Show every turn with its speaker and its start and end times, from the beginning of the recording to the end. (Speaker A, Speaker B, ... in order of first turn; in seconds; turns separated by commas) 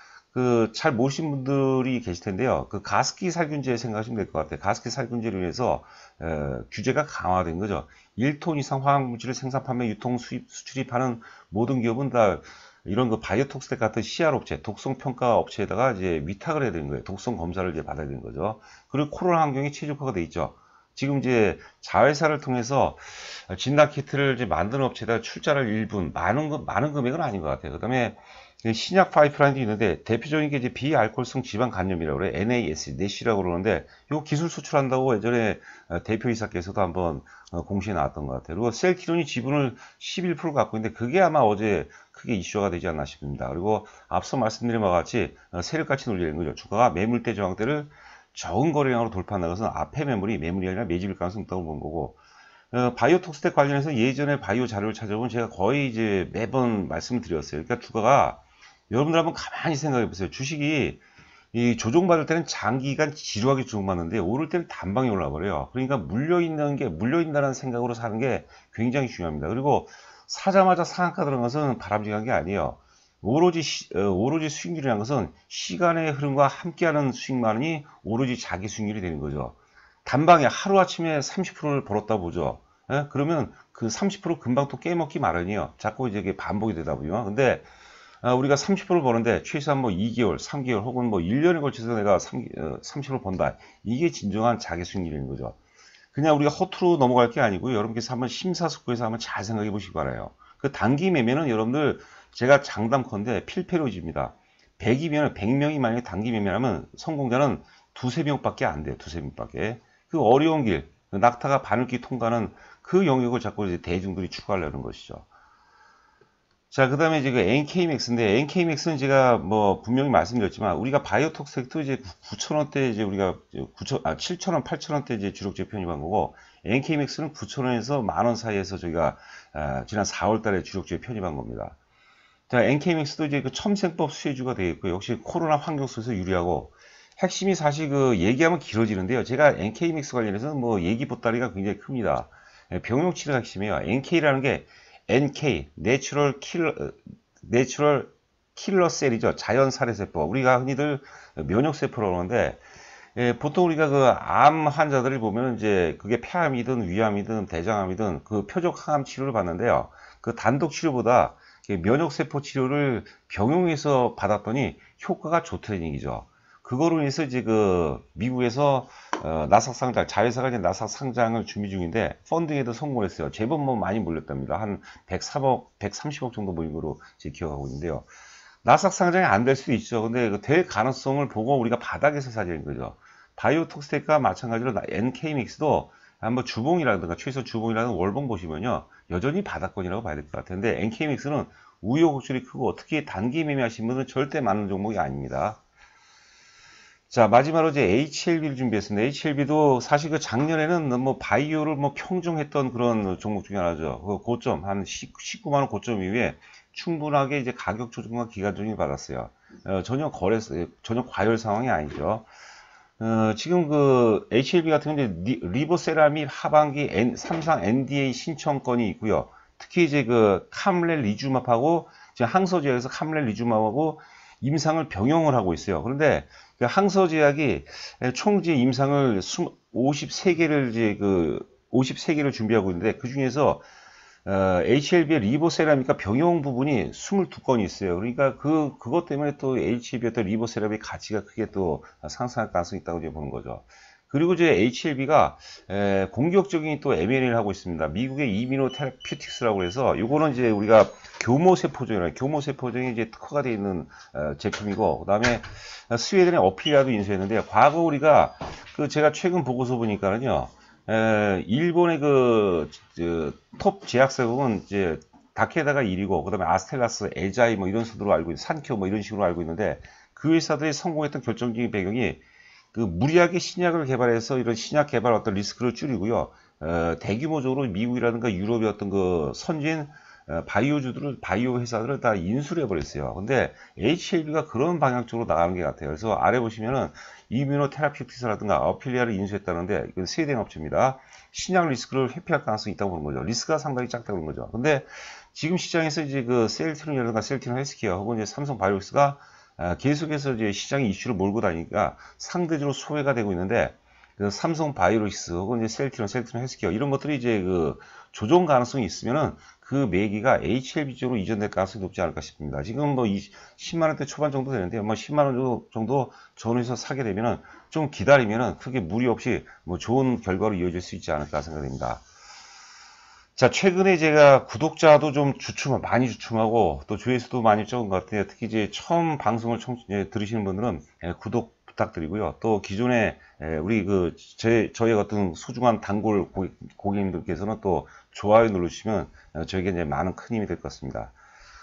Speaker A: 0.3-52.2, Speaker A: 52.7-61.0, Speaker A: 61.5-87.7, Speaker A: 88.2-95.6, Speaker A: 96.1-115.3, Speaker A: 116.7-131.8, Speaker A: 132.5-152.6, Speaker A: 153.2-178.1, Speaker A: 178.6-195.6, Speaker A: 197.1-212.2, Speaker A: 213.0-233.7, Speaker A: 234.2-272.2, Speaker A: 272.7-322.0, Speaker A: 323.4-341.1